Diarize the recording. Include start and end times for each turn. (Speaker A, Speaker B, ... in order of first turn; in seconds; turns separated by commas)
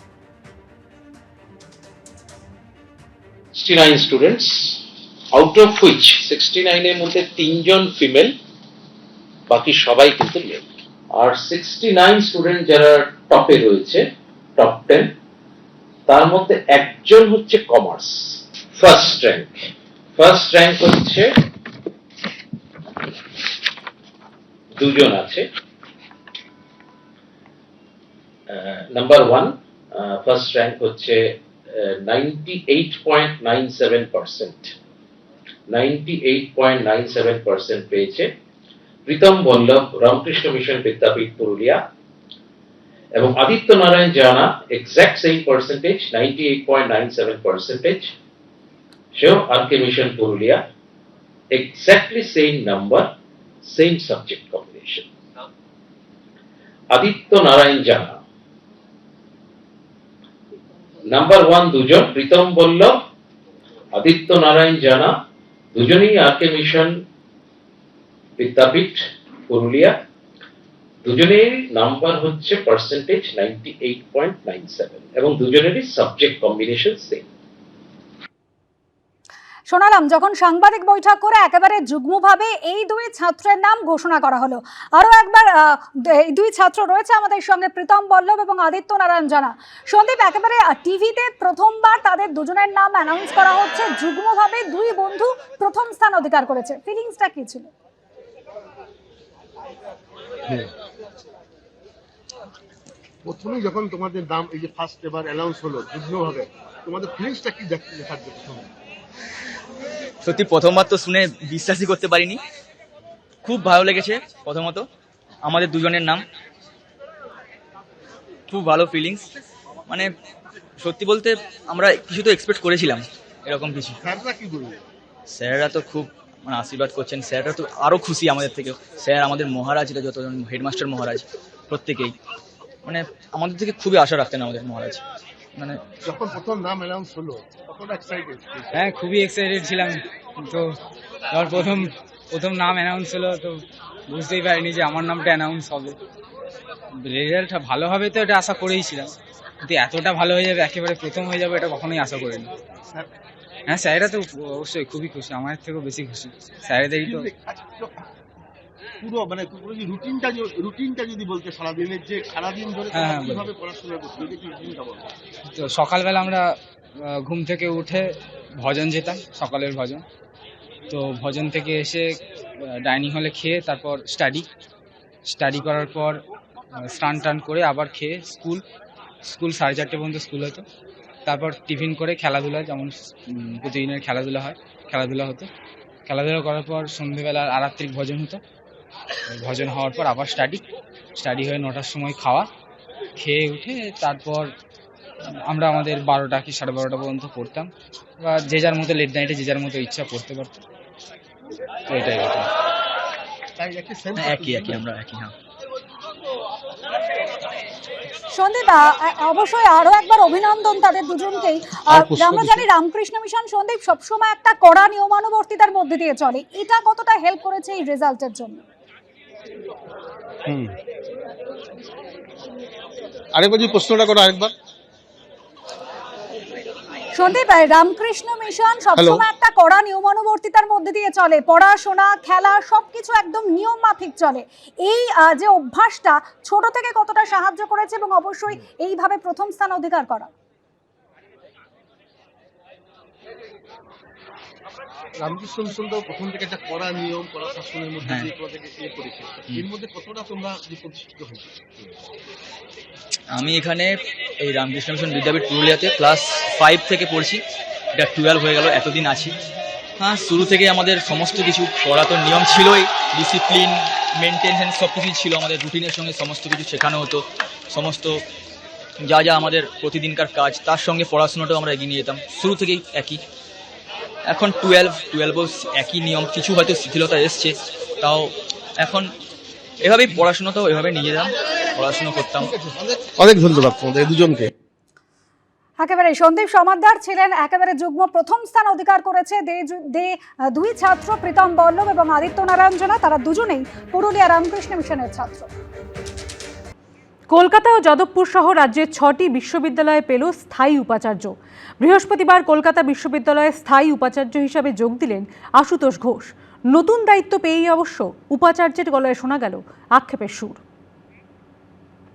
Speaker A: 3.5-8.3, Speaker A: 9.5-14.0, Speaker A: 14.6-15.1, Speaker A: 16.1-19.6, Speaker A: 20.2-21.3, Speaker A: 24.8-25.5, Speaker A: 28.5-34.7, Speaker A: 35.7-38.3, Speaker A: 39.1-41.8, Speaker A: 43.1-48.1, Speaker A: 49.1-50.6, Speaker A: 51.5-53.1, Speaker A: 53.6-55.1, Speaker A: 56.9-58.2, Speaker A: 61.1-63.0, Speaker A: 63.9-65.1, Speaker A: 65.7-67.0, Speaker A: 68.4-69.9, Speaker A: 71.0-77.2, Speaker B: 79.7-97.7, Speaker C: 103.2-108.7, Speaker D: 110.3-112.4, Speaker D: 114.2-114.7, Speaker D: 115.5-116.2, Speaker D: 118.5-119.2, Speaker D: 120.8-123.0, Speaker C: 124.0-124.8, Speaker D: 125.4-131.2, Speaker D: 131.8-132.1, Speaker D: 132.9-135.0, Speaker C: 136.0-138.7, Speaker E: 138.7-140.7, Speaker E: 141.3-145.9, Speaker E: 147.0-152.5, Speaker E: 153.7-157.3, Speaker C: 157.0-158.0, Speaker C: 159.0-165.1, Speaker E: 162.9-163.5, Speaker E: 165.5-166.5, Speaker E: 167.1-170.0, Speaker E: 170.9-172.2, Speaker E: 172.7-174.4, Speaker E: 175.3-176.2, Speaker E: 176.8-178.6, Speaker E: 179.2-180.6, Speaker E: 181.2-185.5, Speaker E: 186.1-188.4, Speaker E: 189.3-190.6, Speaker E: 191.2-192.5, Speaker E: 193.2-194.5, Speaker E: 195.4-197.7, Speaker E: 198.2-200.6, Speaker E: 201.9-202.5, Speaker C: 203.6-204.9, Speaker D: 204.2-204.7, Speaker B: 208.3-218.6, Speaker C: 211.9-212.6, Speaker C: 220.4-220.7, Speaker C: 223.3-224.5, Speaker B: 227.1-240.3, Speaker C: 229.0-229.2, Speaker C: 245.2-251.9, Speaker D: 253.4-253.8, Speaker D: 254.4-257.4, Speaker D: 258.0-259.3, Speaker D: 260.0-268.2, Speaker D: 269.1-273.2, Speaker D: 274.3-278.2, Speaker D: 279.9-282.5, Speaker C: 282.4-284.5, Speaker B: 285.8-295.5, Speaker F: 297.3-310.6